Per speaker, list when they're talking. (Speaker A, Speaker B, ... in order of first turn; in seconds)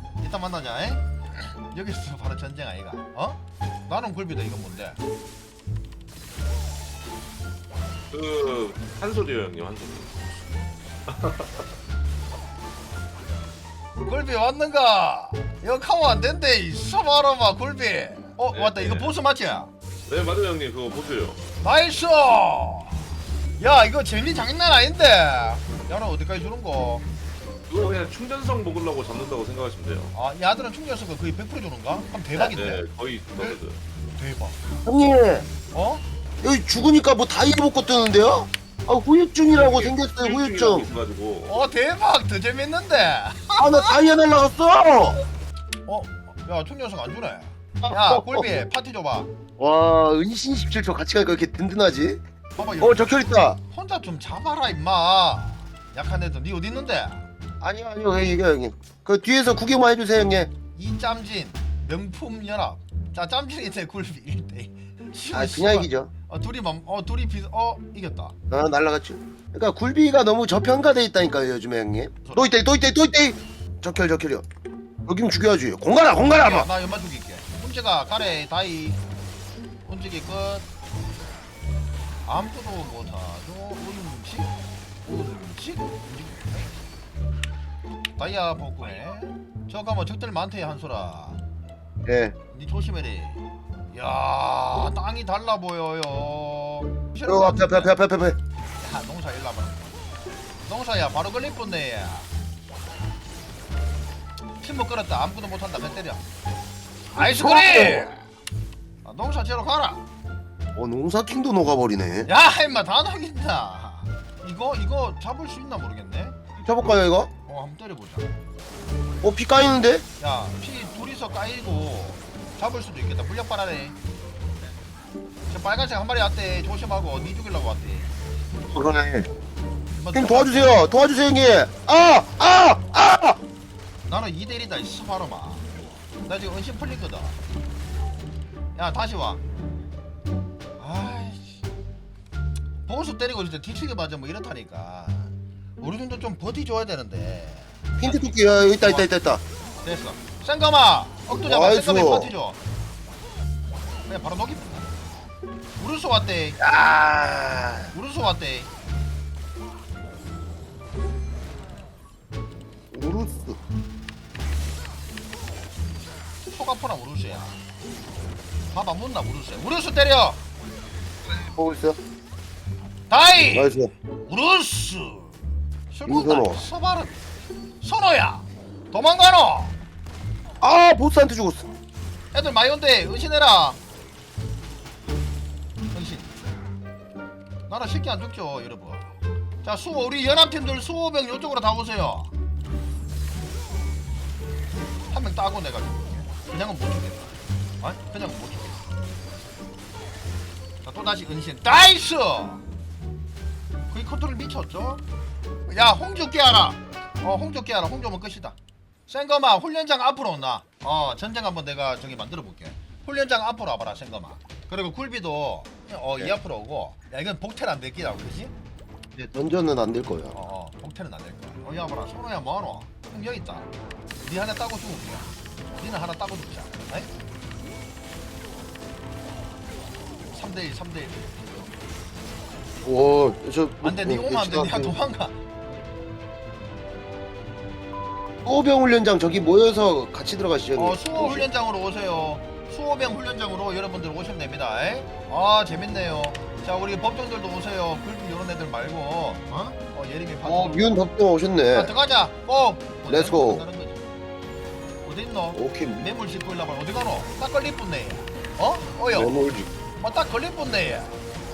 Speaker A: 0.2-5.0, 14.1-19.7, 21.6-23.0, 23.6-27.1, 30.1-32.8, 34.2-34.6, 35.7-36.0, 41.5-44.2, 45.9-49.3, 52.5-57.3, 60.7-68.3, 72.2-72.6, 76.3-79.0, 79.8-80.7, 82.3-84.5, 85.0-86.7, 88.2-91.4, 92.5-98.0, 98.8-100.0, 100.7-102.3, 104.6-106.2, 107.1-108.2, 109.0-110.1, 112.2-116.4, 117.5-118.3, 120.2-124.0, 125.5-128.1, 129.9-130.9, 134.1-135.7, 136.2-137.4, 138.7-139.4, 140.8-141.6, 142.8-149.1, 149.8-152.6, 154.1-155.0, 155.8-156.6, 157.9-158.7, 166.5-167.6, 168.7-170.4, 173.1-175.3, 175.9-177.3, 177.8-179.8, 182.3-183.8, 185.9-186.3, 187.7-192.3, 195.1-198.9, 200.8-202.6, 203.9-205.0, 205.7-208.6, 209.1-218.5, 220.3-227.1, 230.3-231.5, 233.8-235.3, 240.8-251.0, 251.7-254.1, 255.0-259.5, 260.0-261.2
Speaker B: 8.1-10.2, 11.1-11.5, 18.5-19.2, 20.1-21.4, 27.7-30.1, 32.3-33.8, 39.5-41.5
Speaker C: 34.8-35.5, 36.4-40.9, 43.6-45.2, 47.8-48.5, 49.6-52.2, 52.8-53.6, 57.6-60.5, 65.3-66.1, 68.5-74.5, 75.0-76.7, 92.0-92.3, 97.3-98.4, 107.2-108.1, 110.7-112.3, 116.6-117.3, 119.2-120.0, 128.7-129.3, 130.1-133.4, 148.0-149.4, 151.4-152.3, 156.6-157.9, 162.9-163.6, 171.3-172.0, 173.5-173.9, 176.1-176.6, 180.6-181.7, 219.2-220.4, 232.8-234.9, 238.4-241.5, 250.4-251.9, 253.1-253.7, 255.5-256.0, 259.1-259.7